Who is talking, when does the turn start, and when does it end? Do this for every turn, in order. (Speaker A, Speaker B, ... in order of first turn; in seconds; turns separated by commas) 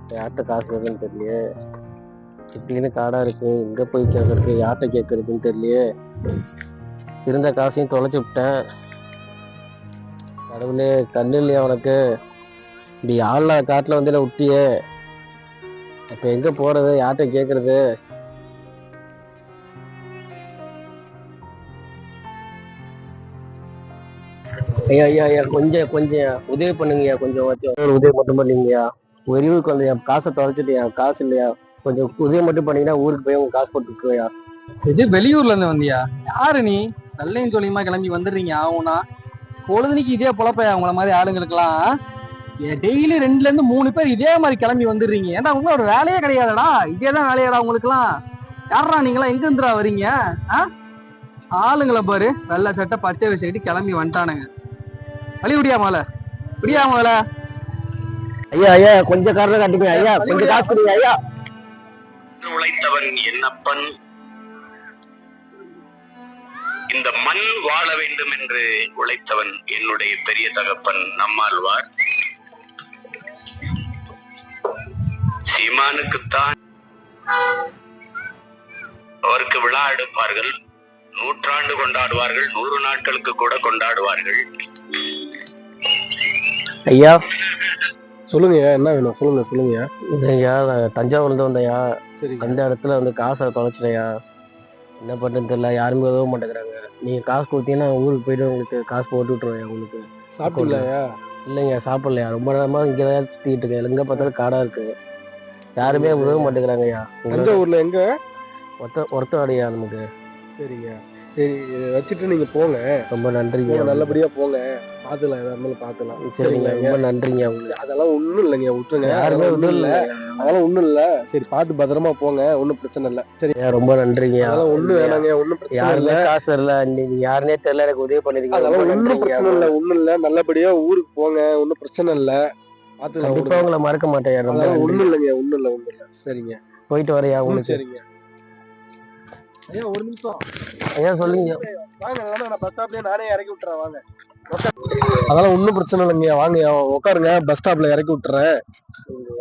Speaker A: 0.1-1.4, Speaker A: 2.5-5.8, Speaker A: 7.2-8.5, Speaker A: 10.5-11.9, Speaker A: 13.0-14.6, Speaker A: 16.1-17.8, Speaker A: 24.8-34.3, Speaker B: 34.9-39.0, Speaker B: 39.6-41.8, Speaker B: 42.6-48.1, Speaker B: 48.7-50.7, Speaker B: 51.5-54.5, Speaker B: 55.4-56.0, Speaker B: 56.6-57.2, Speaker A: 58.5-61.1, Speaker B: 59.9-60.8, Speaker C: 62.4-63.8, Speaker C: 66.9-71.8, Speaker C: 73.6-73.9, Speaker C: 74.7-76.5, Speaker C: 79.3-80.5, Speaker C: 81.2-84.4, Speaker A: 86.9-87.2, Speaker D: 88.3-89.9, Speaker A: 90.1-91.8, Speaker D: 92.2-92.6, Speaker A: 92.4-94.1, Speaker A: 95.0-100.9, Speaker D: 100.3-101.0, Speaker A: 101.5-104.9, Speaker A: 105.8-107.6, Speaker D: 105.8-106.5, Speaker D: 107.3-108.0, Speaker A: 108.8-110.0, Speaker D: 110.6-112.8, Speaker A: 113.1-114.2, Speaker D: 113.7-117.0, Speaker A: 116.2-117.8, Speaker D: 117.7-123.6, Speaker A: 119.0-120.5, Speaker A: 123.6-129.7, Speaker D: 124.4-126.2, Speaker D: 128.5-132.4, Speaker D: 133.0-133.7, Speaker A: 133.2-135.1, Speaker D: 134.5-136.6, Speaker A: 136.9-137.8, Speaker D: 137.4-138.0, Speaker D: 139.7-140.4, Speaker A: 140.9-141.6, Speaker D: 141.3-144.7, Speaker D: 145.3-148.6